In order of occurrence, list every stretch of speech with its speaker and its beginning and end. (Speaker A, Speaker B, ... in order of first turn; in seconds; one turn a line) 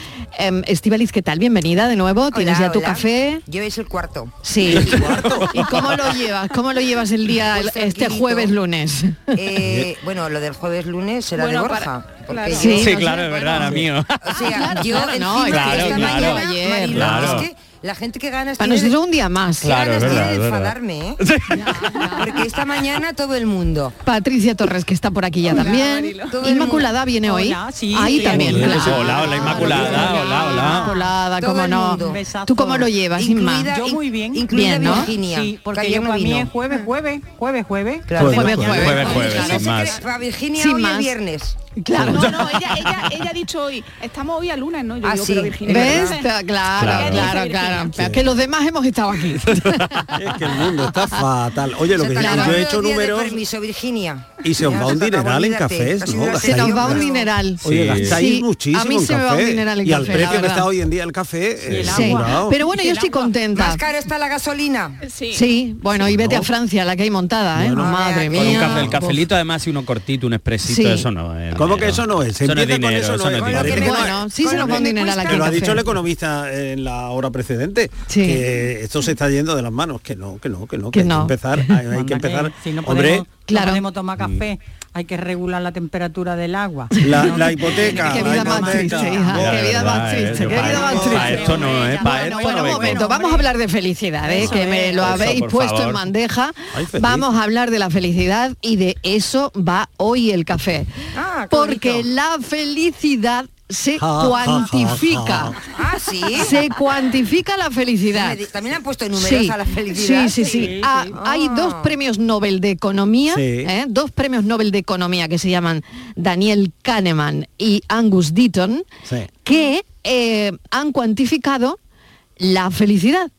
Speaker A: 0.3-3.4
Speaker B: 2.3-4.4
Speaker A: 4.4-9.3
Speaker C: 4.7-5.9
Speaker D: 4.8-5.5
Speaker B: 7.4-8.6
Speaker B: 9.3-12.8
Speaker D: 9.6-9.9
Speaker E: 11.3-13.8
Speaker A: 12.5-13.8
Speaker C: 12.6-17.5
Speaker B: 14.2-19.0
Speaker A: 14.5-17.5
Speaker A: 18.6-20.1
Speaker B: 19.6-21.2
Speaker C: 19.6-21.8
Speaker A: 21.7-22.1
Speaker E: 21.8-22.1
Speaker B: 22.1-23.9
Speaker A: 24.0-33.7
Speaker E: 25.5-26.4
Speaker B: 25.6-26.9
Speaker F: 27.2-30.2
Speaker C: 28.2-31.0
Speaker D: 28.5-30.0
Speaker B: 29.5-30.2
Speaker E: 30.4-30.8
Speaker B: 31.4-32.2
Speaker F: 32.0-32.9
Speaker B: 33.1-36.5
Speaker F: 33.7-39.0
Speaker A: 34.5-35.1
Speaker B: 38.1-41.6
Speaker A: 38.2-39.7
Speaker D: 38.2-38.9
Speaker C: 38.4-40.0
Speaker E: 39.0-40.0
Speaker A: 40.5-41.1
Speaker A: 41.8-42.4
Speaker C: 42.0-43.0
Speaker E: 42.1-46.3
Speaker B: 45.0-46.2
Speaker A: 45.7-50.0
Speaker C: 46.8-47.3
Speaker E: 46.8-48.1
Speaker D: 48.0-48.2
Speaker C: 49.6-50.2
Speaker D: 50.1-53.4
Speaker B: 52.0-57.3
Speaker A: 52.1-52.7
Speaker D: 54.4-57.0
Speaker A: 56.4-60.7
Speaker D: 57.6-62.6
Speaker C: 57.6-58.2
Speaker F: 61.7-63.4
Speaker A: 61.9-63.9
Speaker B: 63.5-65.0
Speaker E: 65.0-65.4
Speaker A: 65.3-69.2
Speaker D: 66.0-66.5
Speaker D: 67.6-67.9
Speaker B: 67.8-68.9
Speaker C: 68.3-74.0
Speaker A: 70.7-71.0
Speaker D: 71.5-83.3
Speaker B: 73.4-75.7
Speaker A: 73.7-75.9
Speaker A: 78.1-78.4
Speaker A: 80.9-81.7
Speaker F: 81.9-89.5
Speaker A: 83.5-83.8
Speaker A: 87.0-100.9
Speaker D: 87.0-90.2
Speaker C: 89.3-93.1
Speaker F: 90.5-93.5
Speaker F: 94.3-94.8
Speaker C: 94.5-96.1
Speaker D: 95.0-95.4
Speaker D: 96.7-97.3
Speaker B: 101.2-102.1
Speaker A: 101.5-105.6
Speaker D: 104.0-105.6
Speaker B: 105.8-106.6
Speaker A: 106.4-108.4
Speaker B: 108.1-112.0
Speaker A: 109.2-118.9
Speaker E: 110.4-110.8
Speaker F: 110.6-111.0
Speaker D: 113.3-113.7
Speaker D: 119.0-119.3
Speaker A: 119.4-121.8
Speaker A: 122.4-123.3